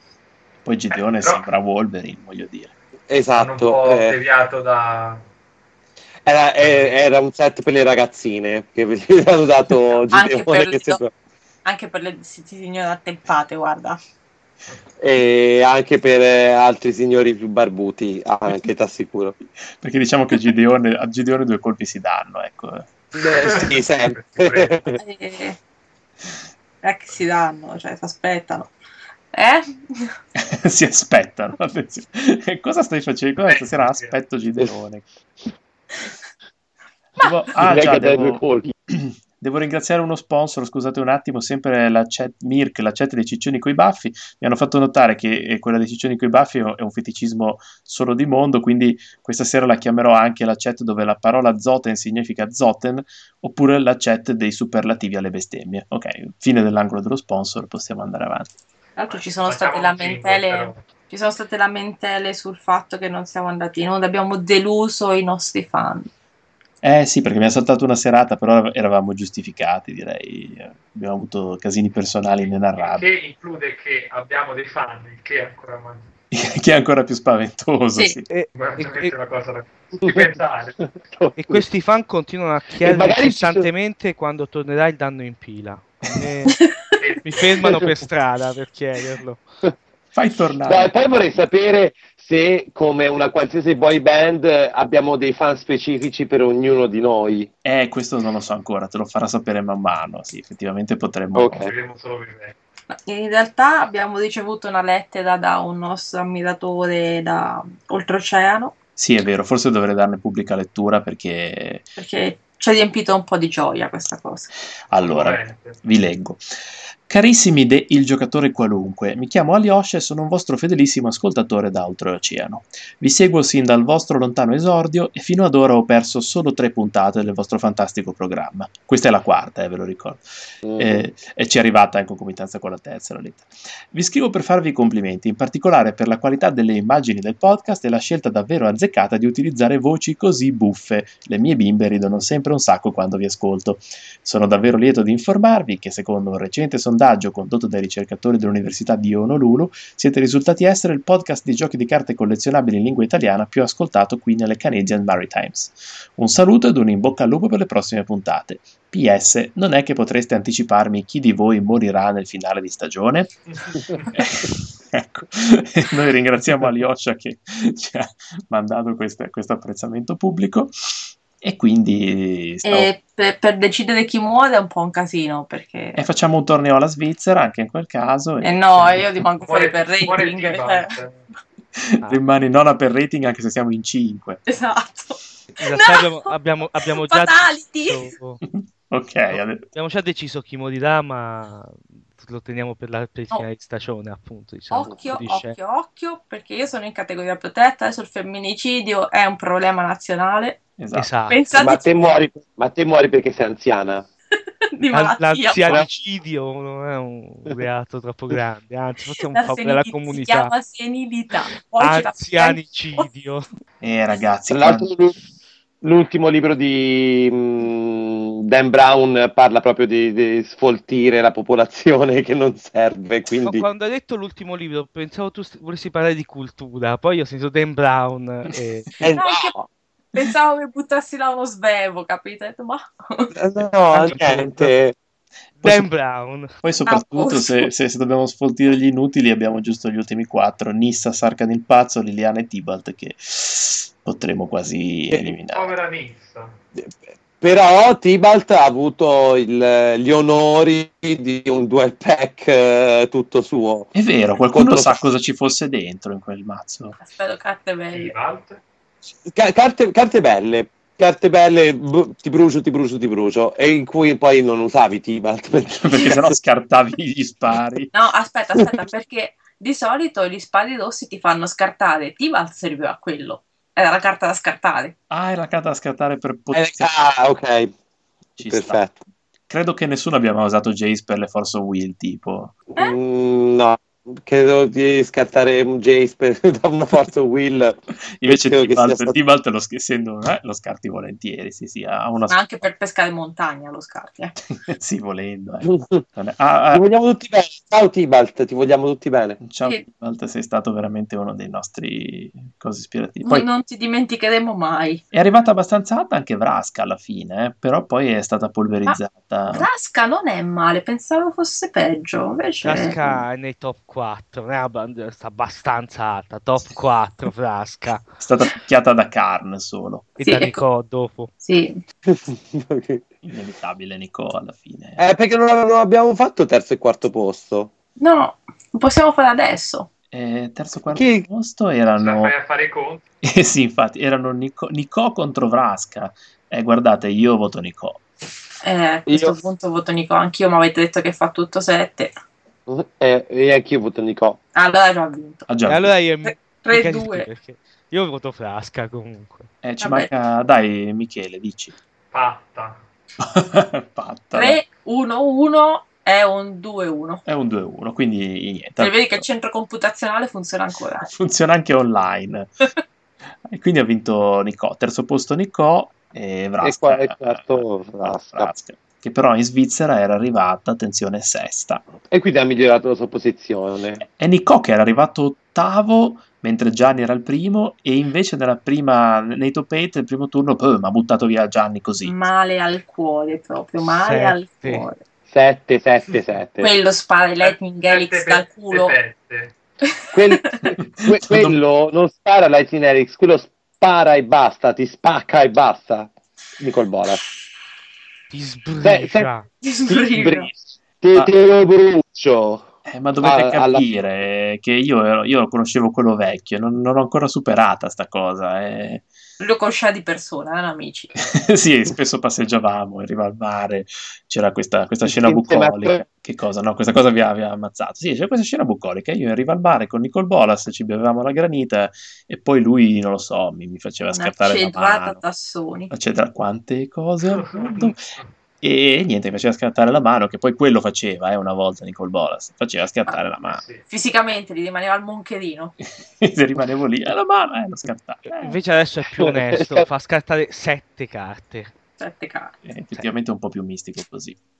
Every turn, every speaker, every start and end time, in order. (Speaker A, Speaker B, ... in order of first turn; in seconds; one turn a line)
Speaker A: 0.6-2.7
Speaker B: 0.9-1.4
Speaker C: 3.1-4.2
Speaker B: 3.4-5.2
Speaker C: 6.2-11.1
Speaker D: 10.1-11.0
Speaker D: 11.6-14.0
Speaker C: 15.0-19.3
Speaker A: 19.8-22.9
Speaker C: 23.1-25.0
Speaker B: 23.3-25.0
Speaker D: 25.0-25.6
Speaker D: 26.8-28.7
Speaker D: 29.3-30.1
Speaker A: 30.4-35.1
Speaker B: 33.4-34.2
Speaker A: 37.2-58.5
Speaker C: 37.6-38.7
Speaker D: 59.0-66.1
Speaker B: 59.1-60.9
Speaker A: 66.8-73.1
Speaker B: 72.8-76.1
Speaker A: 76.3-78.3
Speaker E: 78.3-79.1
Speaker B: 78.5-80.8
Speaker C: 80.0-81.6
Speaker E: 81.4-86.6
Speaker C: 82.8-83.7
Speaker D: 86.5-86.7
Speaker B: 87.0-87.4
Speaker E: 87.2-89.4
Speaker C: 87.6-87.9
Speaker A: 90.1-91.0
Speaker C: 90.7-97.5
Speaker A: 97.6-101.7
Speaker C: 101.3-101.7
Speaker B: 101.6-102.5
Speaker D: 102.9-108.7
Speaker A: 109.0-111.9
Speaker D: 112.0-114.5
Speaker A: 114.9-116.4
Speaker B: 114.9-115.8
Speaker A: 117.1-130.2
Speaker C: 130.6-131.0
Speaker A: 130.8-163.4
Speaker B: 163.5-164.1
Speaker A: 164.1-172.9
Speaker D: 172.6-176.0
Speaker A: 175.9-179.1
Speaker D: 178.4-180.9
Speaker B: 179.4-181.2
Speaker A: 181.7-184.4
Speaker D: 184.5-188.1
Speaker E: 185.5-188.4
Speaker A: 188.4-189.7
Speaker E: 189.3-195.6
Speaker D: 194.7-200.6
Speaker A: 200.8-201.1
Speaker E: 200.9-201.5
Speaker D: 201.3-202.0
Speaker C: 201.5-204.1
Speaker D: 204.7-205.8
Speaker E: 204.9-210.5
Speaker D: 209.3-213.1
Speaker E: 211.8-213.5
Speaker A: 213.8-214.9
Speaker C: 214.5-215.2
Speaker C: 215.8-223.7
Speaker E: 223.4-229.0
Speaker C: 229.0-229.7
Speaker D: 229.2-229.6
Speaker D: 230.1-233.3
Speaker C: 233.3-235.0
Speaker E: 233.9-234.7
Speaker A: 235.6-235.9
Speaker E: 235.6-236.5
Speaker A: 236.6-245.7
Speaker D: 236.9-237.7
Speaker B: 245.5-246.6
Speaker C: 246.8-253.9
Speaker A: 253.9-257.0
Speaker C: 254.5-255.1
Speaker D: 257.0-258.1
Speaker B: 257.9-258.6
Speaker C: 259.2-266.3
Speaker A: 265.7-267.9
Speaker D: 267.9-274.9
Speaker A: 275.1-276.9
Speaker C: 276.5-277.7
Speaker A: 278.4-278.8
Speaker C: 278.4-279.0
Speaker A: 279.5-282.6
Speaker C: 282.7-289.2
Speaker A: 288.2-292.4
Speaker D: 292.3-294.4
Speaker A: 294.5-296.8
Speaker C: 295.7-296.0
Speaker C: 296.7-299.4
Speaker A: 299.4-303.5
Speaker D: 303.2-305.0
Speaker A: 305.1-309.7
Speaker D: 309.5-313.2
Speaker E: 312.6-318.0
Speaker A: 318.2-320.1
Speaker E: 320.2-321.3
Speaker D: 320.2-320.6
Speaker D: 321.4-321.8
Speaker C: 322.1-323.0
Speaker A: 323.2-325.0
Speaker C: 325.0-327.7
Speaker D: 328.0-329.9
Speaker A: 330.1-332.3
Speaker C: 330.9-331.3
Speaker B: 331.9-333.0
Speaker A: 333.2-338.0
Speaker D: 338.6-342.1
Speaker C: 339.1-339.4
Speaker C: 342.7-344.4
Speaker D: 344.5-345.5
Speaker A: 345.5-345.9
Speaker E: 345.7-349.5
Speaker D: 346.2-347.3
Speaker A: 349.6-351.7
Speaker D: 349.8-350.1
Speaker B: 352.1-352.8
Speaker A: 353.2-354.6
Speaker D: 354.3-357.2
Speaker A: 357.2-359.2
Speaker D: 358.8-361.1
Speaker A: 361.0-362.6
Speaker A: 363.4-371.9
Speaker C: 366.6-368.5
Speaker C: 372.1-374.0
Speaker A: 374.0-382.1
Speaker D: 382.0-385.0
Speaker E: 383.8-384.9
Speaker C: 385.3-386.7
Speaker D: 386.6-388.9
Speaker B: 387.4-389.6
Speaker D: 390.0-390.6
Speaker C: 390.1-397.2
Speaker A: 390.7-391.6
Speaker E: 398.3-399.5
Speaker C: 398.8-399.3
Speaker D: 399.6-400.5
Speaker C: 399.9-402.7
Speaker A: 402.9-409.1
Speaker C: 403.2-403.8
Speaker D: 409.4-411.3
Speaker A: 411.2-425.2
Speaker C: 415.0-416.0
Speaker D: 424.1-425.9
Speaker A: 425.9-428.0
Speaker B: 427.2-428.3
Speaker A: 428.6-433.6
Speaker B: 433.4-433.9
Speaker D: 433.9-435.7
Speaker A: 436.1-438.6
Speaker E: 438.4-441.7
Speaker C: 439.1-439.9
Speaker D: 442.0-442.6
Speaker A: 442.6-444.4